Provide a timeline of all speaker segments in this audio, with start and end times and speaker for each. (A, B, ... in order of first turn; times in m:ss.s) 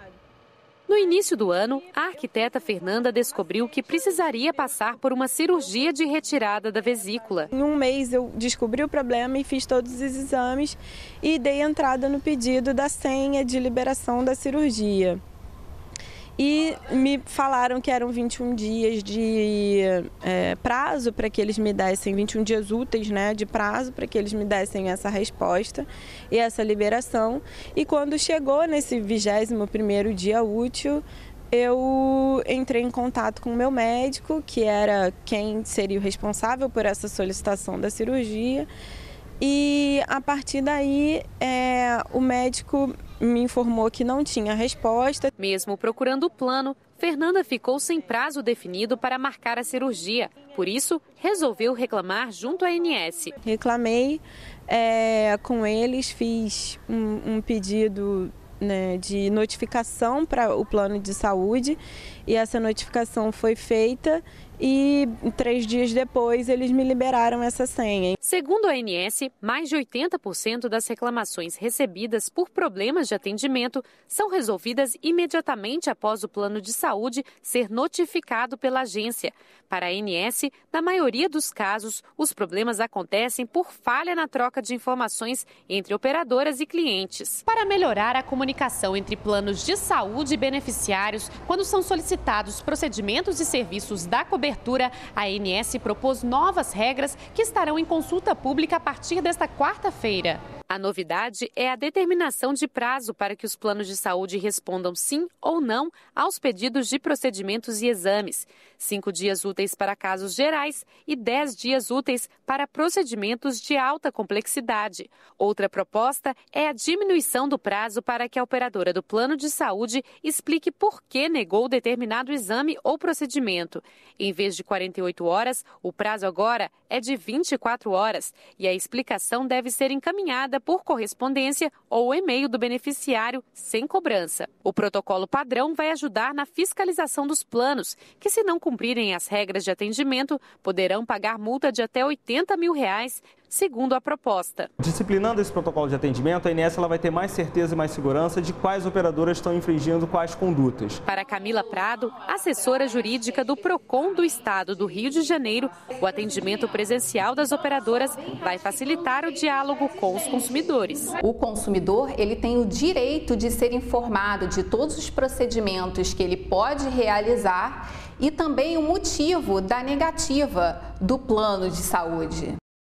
0:00.9-0:07.5 A
0:07.5-0:15.2 B
0:16.4-0:38.7 B
0:39.4-0:45.3 B
0:45.4-0:53.3 A
0:53.4-1:08.1 B
1:08.2-2:24.7 A
2:24.8-2:31.0 C
2:31.1-2:41.1 A
2:41.2-2:52.6 D